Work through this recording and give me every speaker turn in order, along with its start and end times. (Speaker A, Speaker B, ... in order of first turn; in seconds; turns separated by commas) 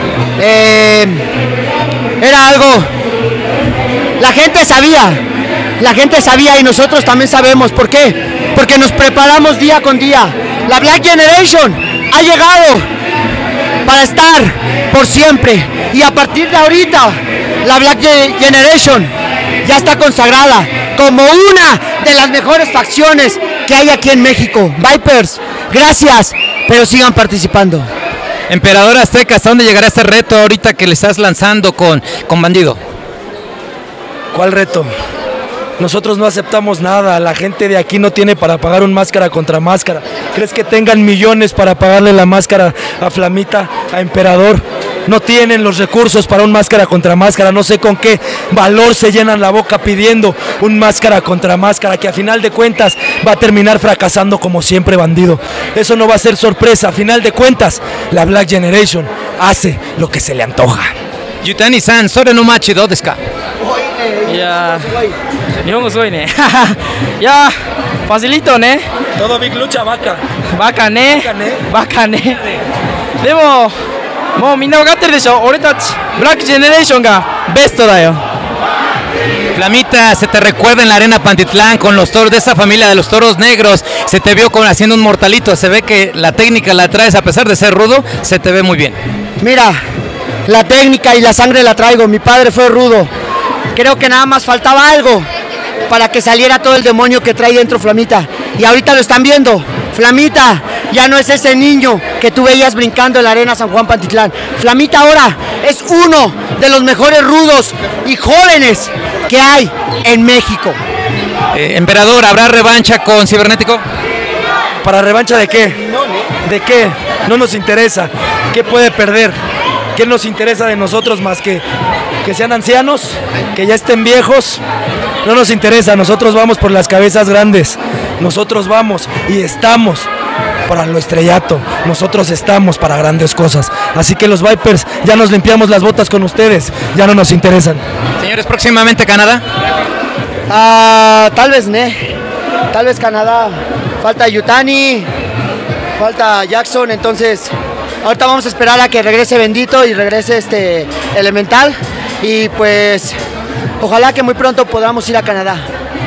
Speaker A: 0.4-1.2, Speaker A: 2.2-2.9, Speaker A: 4.2-5.2, Speaker A: 5.8-12.8, Speaker A: 13.8-19.1, Speaker A: 19.6-27.9, Speaker B: 28.5-32.8, Speaker C: 34.3-34.9, Speaker C: 35.8-60.9, Speaker B: 61.4-63.2, Speaker A: 63.6-65.2, Speaker D: 64.3-64.9, Speaker D: 65.6-67.5, Speaker D: 68.0-68.8, Speaker C: 69.2-70.2, Speaker D: 70.5-72.4, Speaker C: 71.1-71.6, Speaker D: 73.2-73.7, Speaker D: 74.3-78.2, Speaker B: 79.5-89.0, Speaker A: 89.4-89.8, Speaker A: 90.5-93.1, Speaker A: 93.7-95.3, Speaker A: 95.9-110.8, Speaker B: 111.5-113.8, Speaker C: 114.8-115.8, Speaker C: 116.4-119.3, Speaker C: 119.9-121.6, Speaker C: 122.2-124.6, Speaker C: 125.2-130.1, Speaker C: 130.7-137.8, Speaker B: 138.2-139.4, Speaker A: 140.5-142.1, Speaker A: 142.7-145.1, Speaker A: 146.0-147.5, Speaker A: 148.0-153.2, Speaker A: 153.8-155.6